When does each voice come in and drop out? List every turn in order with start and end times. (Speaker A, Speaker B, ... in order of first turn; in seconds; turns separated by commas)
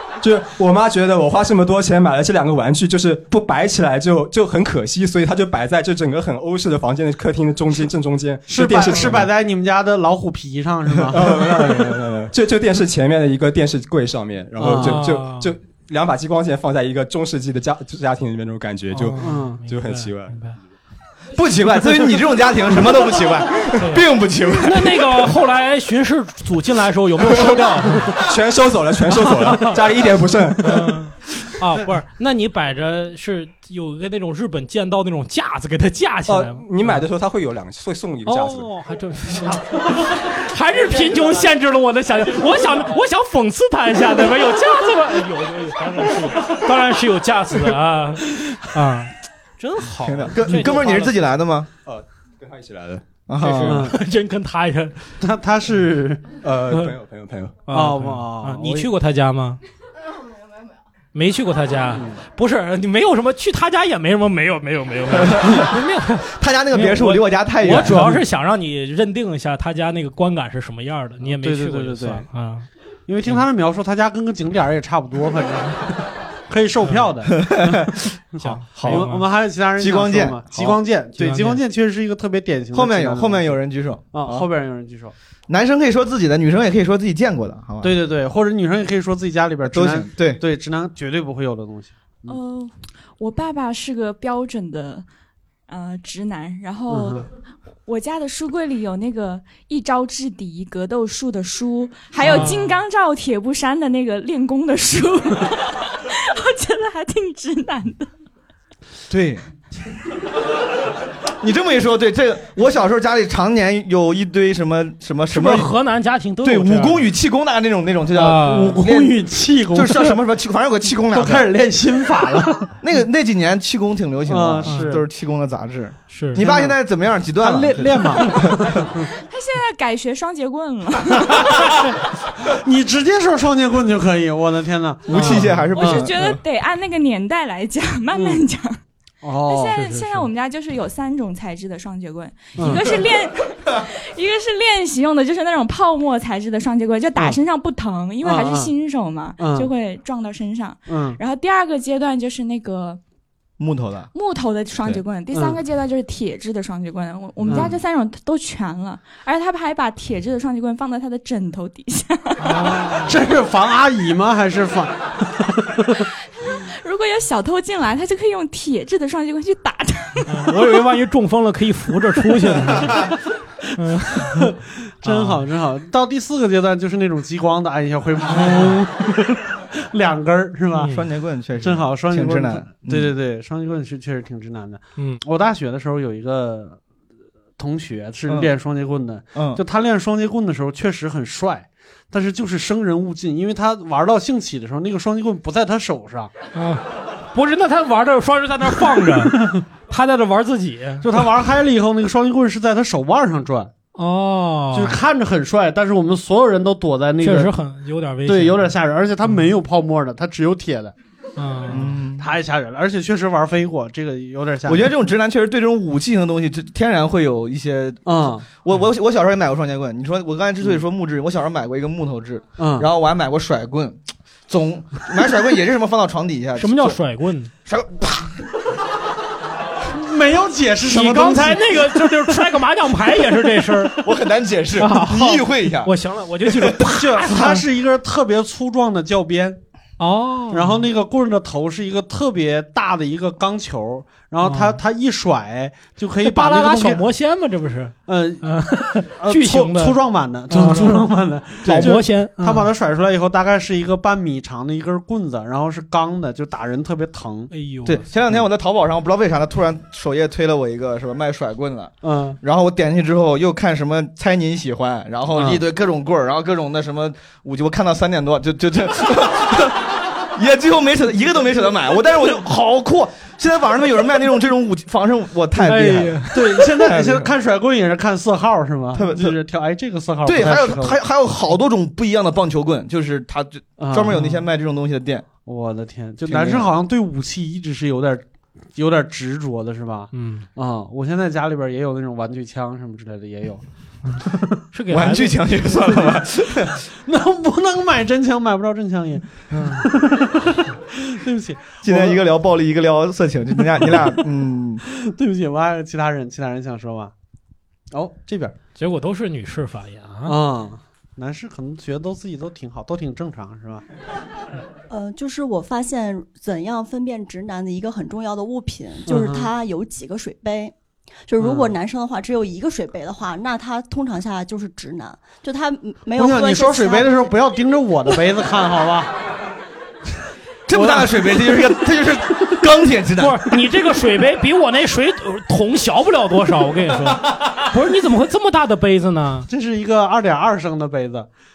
Speaker A: 0.2-9.3, Speaker B: 8.5-11.8, Speaker A: 11.1-20.4, Speaker B: 14.6-15.0, Speaker C: 14.8-15.5, Speaker C: 18.9-20.6, Speaker B: 19.2-19.6, Speaker D: 21.3-25.2, Speaker C: 23.8-24.0, Speaker C: 24.6-28.2, Speaker A: 28.1-30.9, Speaker C: 29.2-29.8, Speaker C: 30.6-37.0, Speaker A: 36.3-38.7, Speaker C: 38.2-51.1, Speaker D: 50.0-51.7, Speaker A: 51.8-53.0, Speaker D: 53.3-53.9, Speaker C: 53.4-55.1, Speaker B: 53.6-54.0, Speaker B: 55.2-56.3, Speaker A: 56.4-57.6, Speaker C: 57.6-59.6, Speaker B: 57.7-58.9, Speaker C: 61.1-72.7, Speaker B: 61.9-62.2, Speaker D: 66.4-68.2, Speaker B: 71.4-72.2, Speaker B: 73.1-83.6, Speaker D: 77.4-77.9, Speaker C: 78.4-79.3, Speaker D: 78.8-79.1, Speaker D: 79.8-80.8, Speaker C: 81.2-81.6, Speaker D: 82.7-84.5, Speaker B: 84.1-85.1, Speaker D: 85.5-87.9, Speaker B: 87.8-92.4, Speaker D: 89.6-90.4, Speaker E: 92.2-95.0, Speaker E: 95.7-97.3, Speaker B: 96.9-97.3, Speaker E: 97.8-108.1, Speaker B: 102.2-102.5, Speaker C: 102.2-102.8, Speaker D: 109.1-109.4, Speaker D: 111.4-115.7, Speaker C: 115.3-117.1, Speaker D: 116.4-119.2, Speaker C: 118.1-118.8, Speaker B: 118.3-120.2, Speaker D: 119.7-121.5, Speaker B: 121.1-122.7, Speaker D: 122.8-128.6, Speaker B: 124.2-125.0, Speaker C: 124.7-125.0, Speaker C: 126.1-126.4, Speaker B: 126.3-126.8, Speaker B: 127.4-129.1, Speaker E: 129.1-131.8, Speaker B: 132.4-136.1, Speaker D: 135.1-136.4, Speaker C: 135.1-135.6, Speaker E: 135.7-138.8, Speaker B: 138.1-138.4, Speaker B: 139.2-139.9, Speaker E: 139.4-153.0, Speaker C: 139.8-140.2, Speaker B: 142.6-143.0, Speaker B: 148.2-148.7, Speaker B: 149.4-149.7, Speaker B: 150.9-151.2, Speaker D: 153.6-154.1, Speaker E: 154.1-162.7, Speaker B: 155.3-155.6, Speaker B: 157.4-157.8, Speaker C: 162.4-163.2, Speaker B: 162.8-166.1, Speaker E: 166.4-170.3, Speaker C: 170.3-173.1, Speaker C: 173.7-175.4, Speaker B: 174.3-181.0, Speaker C: 180.7-181.0, Speaker D: 180.9-183.1, Speaker B: 181.6-186.8, Speaker B: 187.6-196.3, Speaker D: 189.3-189.6, Speaker C: 196.5-201.1, Speaker B: 201.0-203.7, Speaker C: 203.9-205.0, Speaker B: 204.7-207.5, Speaker C: 207.2-208.7, Speaker B: 208.2-210.9, Speaker C: 211.3-211.9, Speaker D: 211.7-212.3, Speaker B: 212.2-214.9, Speaker D: 214.7-227.0, Speaker B: 218.1-218.4, Speaker B: 222.6-222.9, Speaker C: 226.6-227.5, Speaker D: 227.7-228.3, Speaker B: 229.9-232.4, Speaker C: 230.9-234.0, Speaker D: 234.0-235.9, Speaker C: 234.8-237.6, Speaker B: 236.8-239.6, Speaker C: 240.0-240.8, Speaker B: 240.5-247.0, Speaker C: 244.4-244.8, Speaker C: 246.2-251.1, Speaker B: 248.1-257.5, Speaker C: 251.6-252.7, Speaker D: 251.6-252.0, Speaker C: 257.5-258.0, Speaker D: 257.8-269.8, Speaker B: 262.0-262.4, Speaker B: 265.3-265.6, Speaker D: 270.4-277.3, Speaker B: 275.6-281.0, Speaker C: 275.6-276.7, Speaker D: 278.9-279.4, Speaker D: 280.2-285.2, Speaker B: 283.8-284.4, Speaker B: 285.4-293.6, Speaker D: 286.3-286.7, Speaker C: 290.1-290.5, Speaker C: 294.0-295.5, Speaker B: 294.2-294.5, Speaker D: 294.9-296.8, Speaker B: 296.9-302.3, Speaker C: 299.5-299.8, Speaker D: 301.8-304.8, Speaker B: 303.8-304.1, Speaker B: 304.9-307.1, Speaker B: 307.9-308.5, Speaker C: 308.8-310.4, Speaker B: 310.2-313.8, Speaker F: 314.9-320.7, Speaker B: 319.1-319.5, Speaker F: 321.3-327.2, Speaker B: 321.4-321.7, Speaker B: 326.1-329.1, Speaker D: 330.7-333.6, Speaker B: 330.7-331.7, Speaker C: 333.2-339.5, Speaker B: 339.5-341.3